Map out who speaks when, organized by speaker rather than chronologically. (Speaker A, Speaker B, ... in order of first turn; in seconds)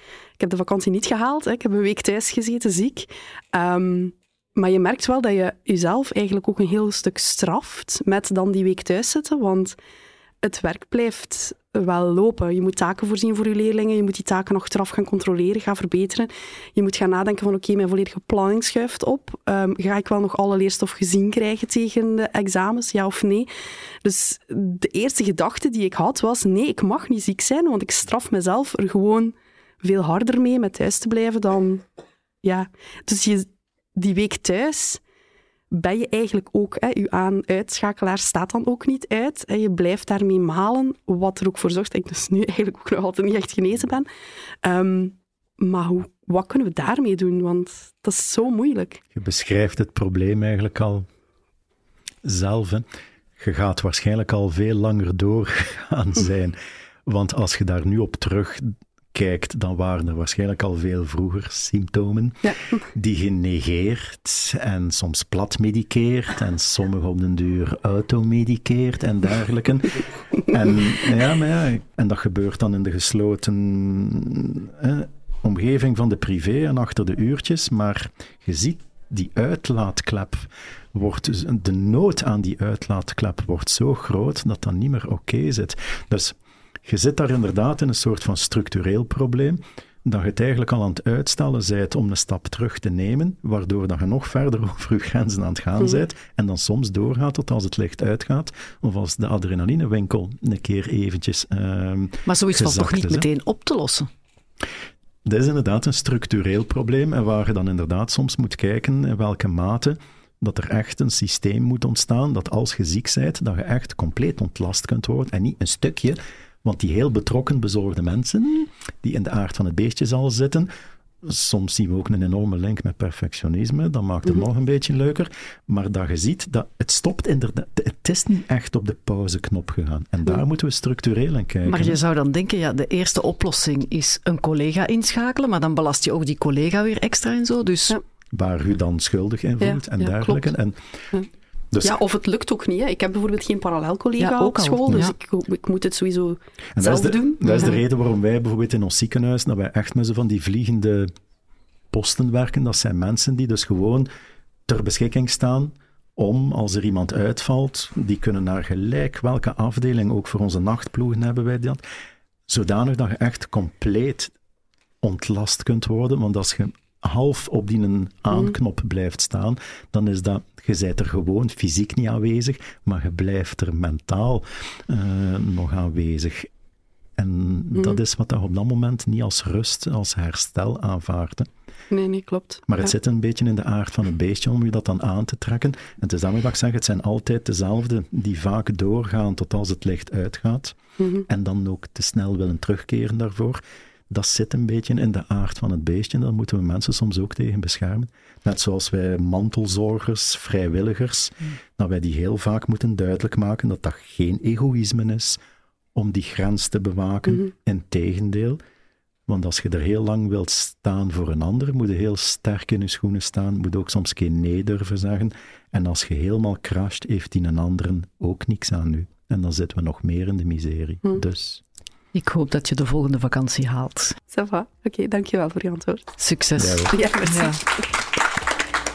Speaker A: 0.4-9.8, 10.4-23.5, 24.0-31.8, 32.4-35.0, 35.7-44.1, 44.6-49.0, 62.4-62.8, 139.6-140.5, 141.8-147.8, 177.7-178.0, 181.9-182.9, 191.0-191.2, 224.3-226.1, 226.9-227.9
Speaker B: 49.1-51.1, 52.2-52.9, 53.4-103.3, 105.2-120.7, 121.2-132.0, 138.3-140.8, 141.7-142.0, 146.8-151.1, 151.9-154.1, 154.7-161.8, 162.5-164.3, 165.0-176.5, 177.2-181.5, 182.7-205.4, 205.9-208.6, 209.3-221.6, 226.6-226.9
Speaker C: 102.2-104.1, 131.7-138.0, 144.2-145.1, 222.1-224.2, 226.2-227.6